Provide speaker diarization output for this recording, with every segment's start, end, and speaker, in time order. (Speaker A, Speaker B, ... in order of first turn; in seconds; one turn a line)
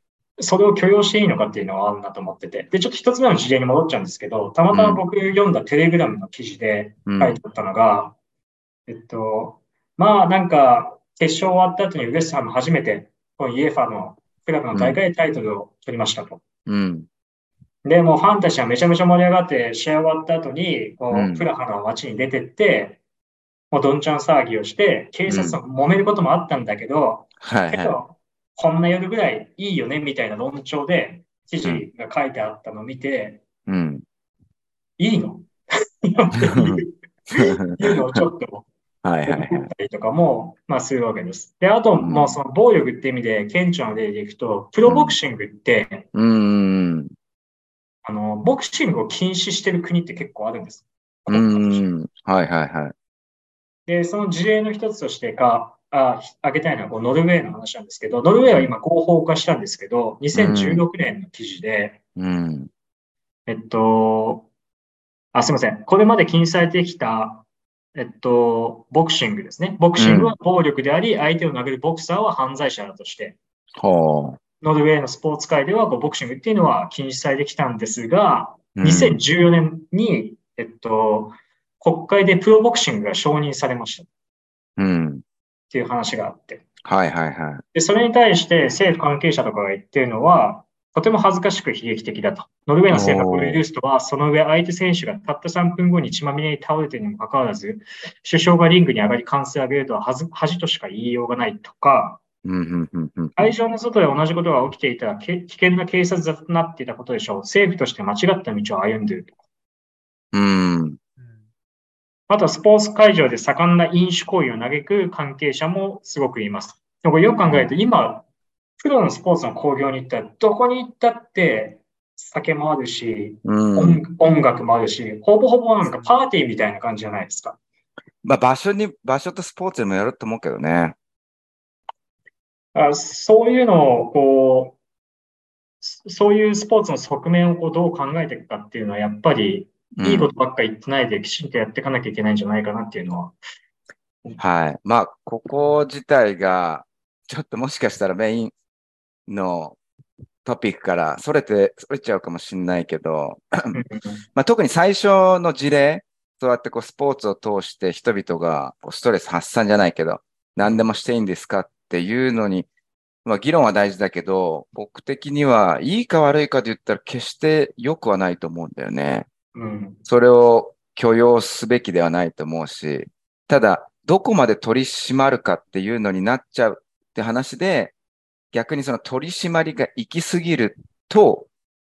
Speaker A: 0.4-8.2
Speaker B: 4.7-5.0
Speaker B: 7.0-7.4
Speaker A: 8.9-16.4
Speaker B: 14.7-15.0
Speaker B: 16.6-17.1
Speaker A: 17.9-23.0
Speaker B: 21.1-21.4
Speaker A: 23.7-33.5
Speaker B: 25.3-25.6
Speaker B: 27.4-28.0
Speaker B: 33.7-34.0
Speaker A: 35.0-35.5
Speaker A: 36.0-38.7
Speaker B: 36.4-38.2
Speaker B: 39.0-39.7
Speaker A: 39.3-46.1
Speaker B: 42.0-42.4
Speaker B: 44.9-45.2
Speaker B: 46.1-47.1
Speaker A: 48.0-51.9
Speaker B: 51.3-52.9
Speaker A: 53.9-62.0
Speaker B: 60.3-60.9
Speaker B: 62.2-62.7
Speaker A: 63.5-64.5
Speaker A: 65.3-73.4
Speaker B: 70.0-70.4
Speaker B: 73.8-74.4
Speaker A: 74.6-84.1
Speaker B: 78.7-79.2
Speaker B: 84.8-85.2
Speaker A: 85.7-86.7
Speaker B: 86.8-87.6
Speaker A: 87.7-102.2
Speaker B: 92.9-93.6
Speaker B: 102.4-103.5
Speaker A: 103.4-109.3
Speaker B: 110.3-111.0
Speaker A: 112.3-118.3
Speaker A: 118.8-127.6
Speaker B: 123.4-124.0
Speaker B: 128.2-130.9
Speaker A: 132.7-134.8
Speaker A: 135.8-143.4
Speaker B: 139.9-140.3
Speaker B: 144.4-148.5
Speaker B: 149.3-149.8
Speaker B: 150.4-153.8
Speaker A: 153.7-154.2
Speaker B: 154.3-162.7
Speaker B: 163.2-169.3
Speaker A: 169.6-170.0
Speaker B: 170.1-177.9
Speaker B: 178.5-181.5